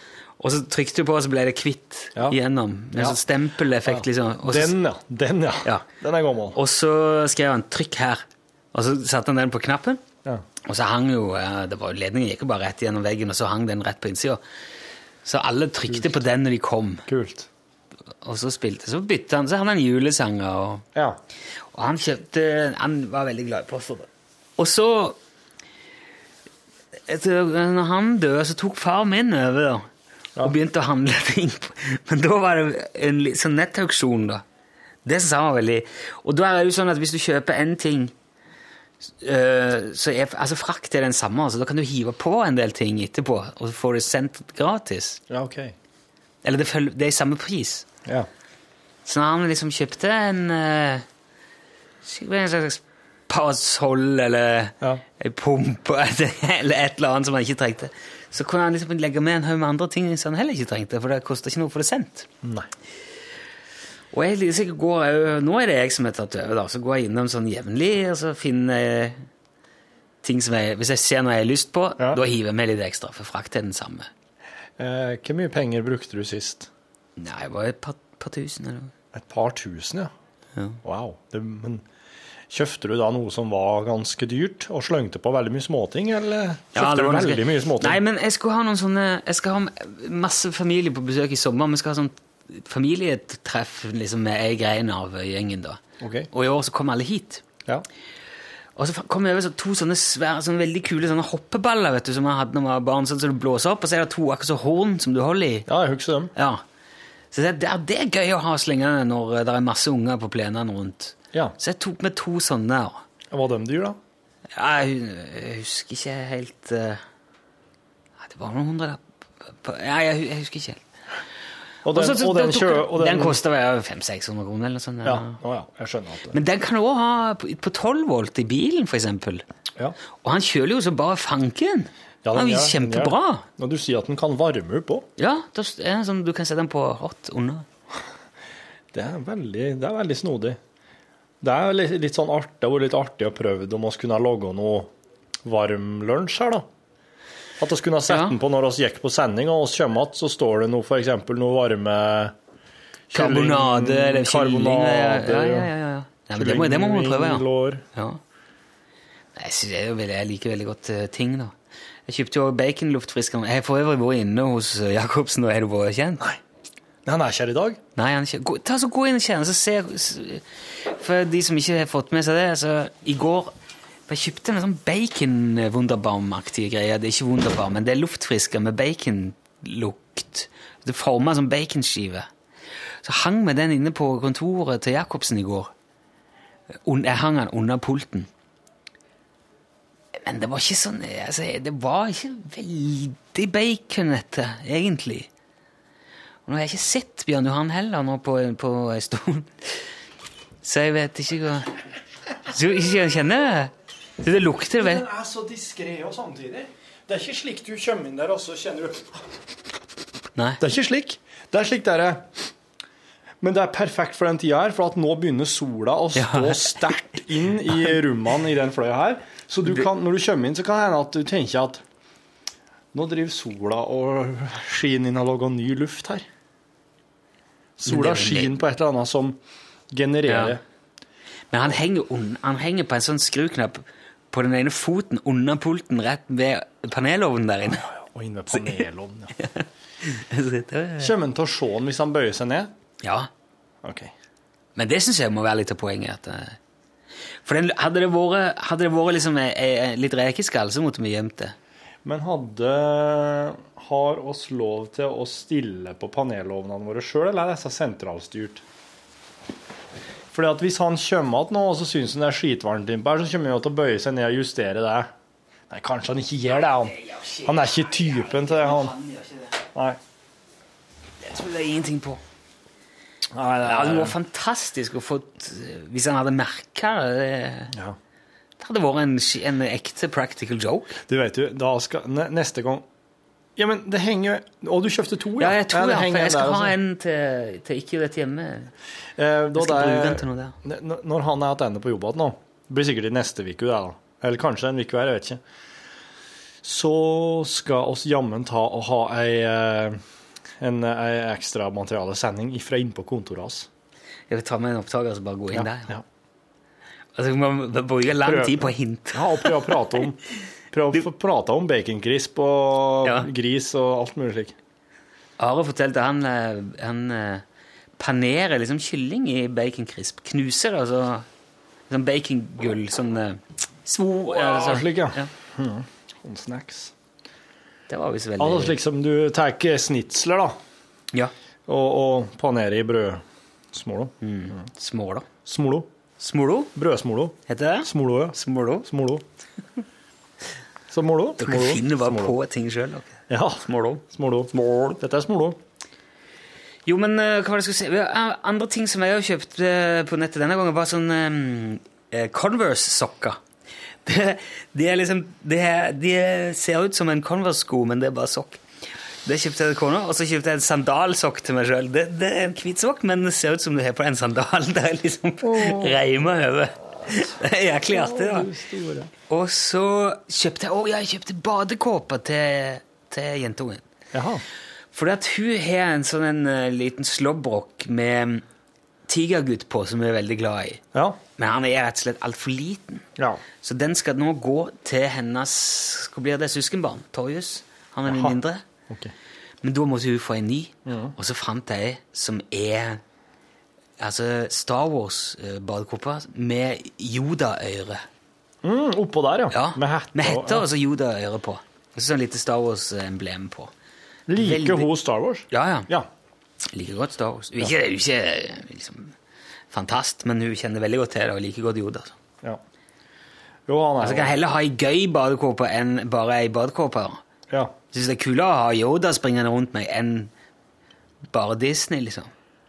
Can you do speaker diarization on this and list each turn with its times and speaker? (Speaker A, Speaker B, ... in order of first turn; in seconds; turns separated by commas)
Speaker A: 0.4-4.8, Speaker B: 3.9-6.6, Speaker A: 6.5-10.0, Speaker A: 10.7-14.4, Speaker A: 15.2-17.1, Speaker B: 15.9-16.2, Speaker B: 17.1-17.5, Speaker A: 18.2-20.8, Speaker A: 21.7-24.1, Speaker A: 24.6-25.2, Speaker A: 27.1-29.9, Speaker A: 30.4-34.4, Speaker A: 35.0-38.1, Speaker A: 39.2-45.2, Speaker B: 45.3-45.8, Speaker A: 46.4-47.9, Speaker A: 49.0-51.0, Speaker A: 52.0-62.3, Speaker B: 62.4-62.7, Speaker A: 64.1-69.3, Speaker A: 70.2-74.1, Speaker B: 74.8-76.7, Speaker A: 77.2-78.9, Speaker B: 79.1-80.1, Speaker B: 80.8-81.8, Speaker B: 82.5-88.0, Speaker A: 86.7-95.8, Speaker B: 96.0-96.3, Speaker A: 96.3-97.4, Speaker A: 98.8-105.7, Speaker B: 105.7-106.3, Speaker A: 106.4-106.6, Speaker A: 107.3-113.0, Speaker B: 113.3-114.0, Speaker A: 114.6-117.0, Speaker A: 118.2-120.8, Speaker B: 121.8-123.4, Speaker A: 121.9-125.4, Speaker B: 125.0-126.4, Speaker A: 126.3-129.4, Speaker A: 130.2-133.4, Speaker B: 132.2-135.1, Speaker A: 135.2-137.7, Speaker B: 138.9-140.6, Speaker B: 141.4-144.9, Speaker B: 145.4-146.7, Speaker B: 147.6-152.3, Speaker A: 148.1-148.3, Speaker B: 153.1-155.7, Speaker A: 153.1-158.2, Speaker B: 156.4-157.8, Speaker A: 159.3-161.5, Speaker A: 162.1-166.2, Speaker B: 167.1-167.8, Speaker A: 168.0-173.5, Speaker A: 174.1-182.3, Speaker A: 183.0-185.7, Speaker A: 186.8-188.3, Speaker A: 190.2-195.3, Speaker A: 196.5-199.9, Speaker A: 200.6-201.8, Speaker A: 202.5-205.1, Speaker B: 204.8-209.3, Speaker A: 210.4-210.6, Speaker B: 210.6-212.5, Speaker B: 213.4-221.8, Speaker A: 216.2-217.2, Speaker B: 222.9-226.3, Speaker B: 227.8-229.4, Speaker A: 227.9-228.5, Speaker B: 229.9-230.6, Speaker A: 230.3-230.6, Speaker A: 231.5-237.8, Speaker B: 237.7-239.3, Speaker A: 239.4-241.1, Speaker B: 241.0-242.7, Speaker A: 243.0-243.3, Speaker B: 243.8-244.1, Speaker A: 244.8-246.6, Speaker A: 247.4-251.6, Speaker B: 252.1-258.6, Speaker B: 260.3-265.1, Speaker B: 265.7-268.9, Speaker A: 266.9-269.6, Speaker A: 271.2-272.2, Speaker B: 273.3-274.2, Speaker A: 273.6-277.7, Speaker A: 278.6-281.0, Speaker B: 281.1-282.9, Speaker B: 283.6-286.8, Speaker A: 285.4-288.7, Speaker B: 289.2-295.4, Speaker A: 289.6-290.6, Speaker B: 296.6-300.0, Speaker B: 300.6-303.7, Speaker A: 304.3-305.9, Speaker B: 305.5-306.0, Speaker A: 307.2-309.8, Speaker B: 308.2-310.2, Speaker B: 310.7-314.6, Speaker A: 315.4-317.4, Speaker A: 318.0-321.3, Speaker A: 321.9-325.3, Speaker B: 324.3-326.9, Speaker A: 327.9-328.8, Speaker B: 328.4-330.6, Speaker B: 331.7-334.6, Speaker A: 334.2-335.3, Speaker B: 335.5-335.9, Speaker A: 336.2-336.7, Speaker B: 336.8-339.2, Speaker A: 337.5-338.9, Speaker B: 340.9-342.4, Speaker A: 341.4-344.0, Speaker B: 343.3-345.6, Speaker A: 344.5-345.0, Speaker A: 346.9-353.4, Speaker A: 354.1-358.6, Speaker A: 359.2-368.5, Speaker B: 365.4-366.0, Speaker B: 367.9-369.1, Speaker A: 369.3-373.8, Speaker B: 374.1-374.4, Speaker A: 374.9-378.4, Speaker A: 379.1-380.8, Speaker B: 380.9-381.2, Speaker A: 381.4-383.1, Speaker B: 383.2-383.4, Speaker A: 383.6-388.6, Speaker B: 388.1-388.4, Speaker A: 389.6-393.0, Speaker B: 390.9-391.1, Speaker A: 394.0-398.0, Speaker B: 398.6-400.7, Speaker A: 399.5-403.7, Speaker B: 404.3-406.1, Speaker A: 404.4-404.9, Speaker A: 405.5-405.9, Speaker A: 406.7-409.1, Speaker A: 409.7-412.1, Speaker B: 413.7-414.4, Speaker A: 414.0-417.2, Speaker A: 417.9-420.3, Speaker A: 421.3-422.3